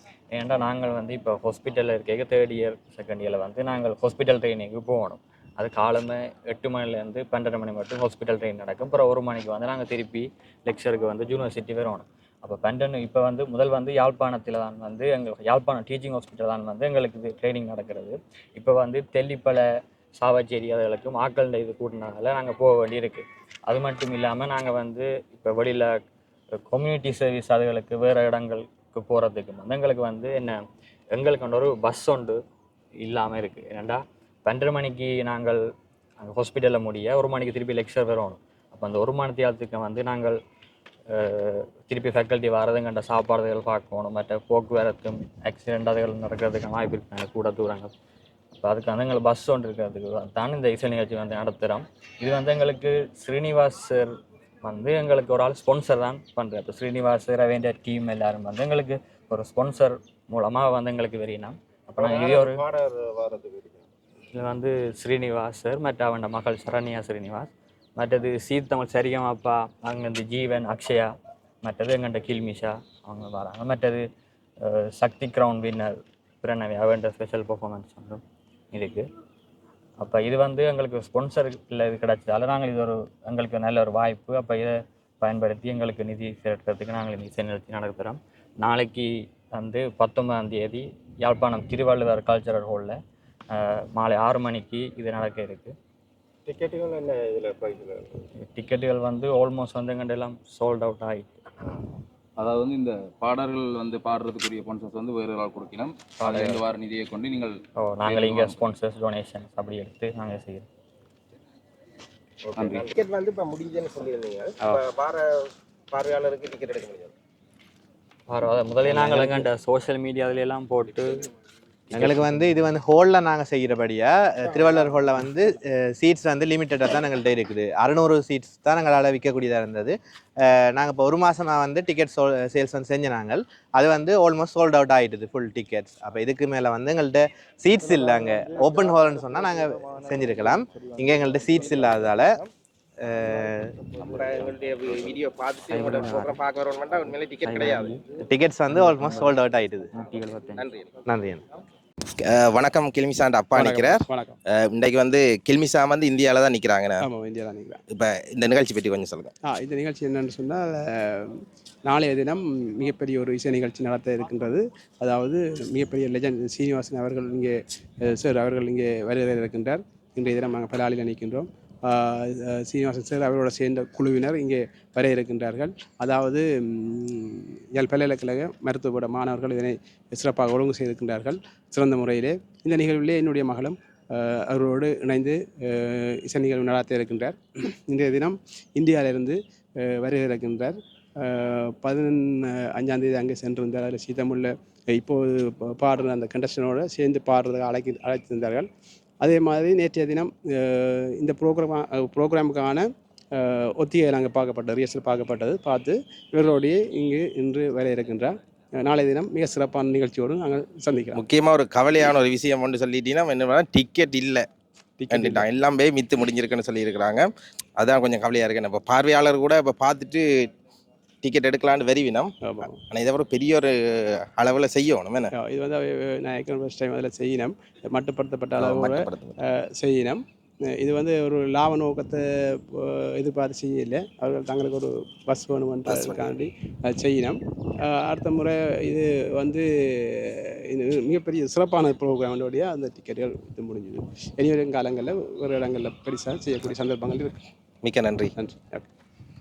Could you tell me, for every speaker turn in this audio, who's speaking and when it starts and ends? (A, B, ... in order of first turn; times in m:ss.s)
0:00.3-0:19.6 A
0:20.2-0:25.9 A
0:26.7-0:30.6 A
0:31.1-0:32.4 A
0:33.0-0:35.6 A
0:36.2-0:40.4 A
0:41.2-0:47.9 A
0:48.6-0:54.1 A
0:54.6-1:02.6 A
1:02.0-1:03.8 B
1:04.3-1:11.1 A
1:11.6-1:14.0 A
1:14.6-1:19.1 A
1:20.0-1:33.0 A
1:33.5-1:35.7 A
1:36.5-1:38.1 B
1:38.5-1:41.3 A
1:42.4-1:48.6 C
1:46.2-1:46.6 A
1:47.8-1:50.6 A
1:52.4-1:55.2 B
1:52.6-1:52.9 C
1:55.9-1:57.1 B
1:58.3-2:01.1 A
2:01.9-2:09.9 D
2:01.9-2:02.4 A
2:10.4-2:22.3 D
2:23.0-2:23.7 D
2:24.0-2:28.1 B
2:25.7-2:26.4 A
2:27.4-2:29.4 A
2:28.3-2:29.9 D
2:29.9-2:30.7 A
2:30.6-2:30.9 B
2:31.1-2:31.4 D
2:32.2-2:37.1 B
2:33.6-2:34.3 E
2:37.0-2:37.8 E
2:37.9-2:39.3 B
2:39.5-2:47.5 E
2:48.1-3:18.7 E
3:19.2-3:22.8 E
3:23.4-3:31.2 E
3:31.1-3:34.5 B
3:35.0-3:35.4 E
3:35.1-3:40.5 B
3:41.2-3:42.3 B
3:42.4-3:42.7 E
3:42.9-3:43.7 B
3:44.3-3:45.3 B
3:45.3-3:50.2 E
3:48.5-3:49.4 B
3:50.8-3:57.4 E
3:55.8-3:56.3 B
3:57.9-4:07.4 E
4:07.8-4:08.3 B
4:08.4-4:08.8 E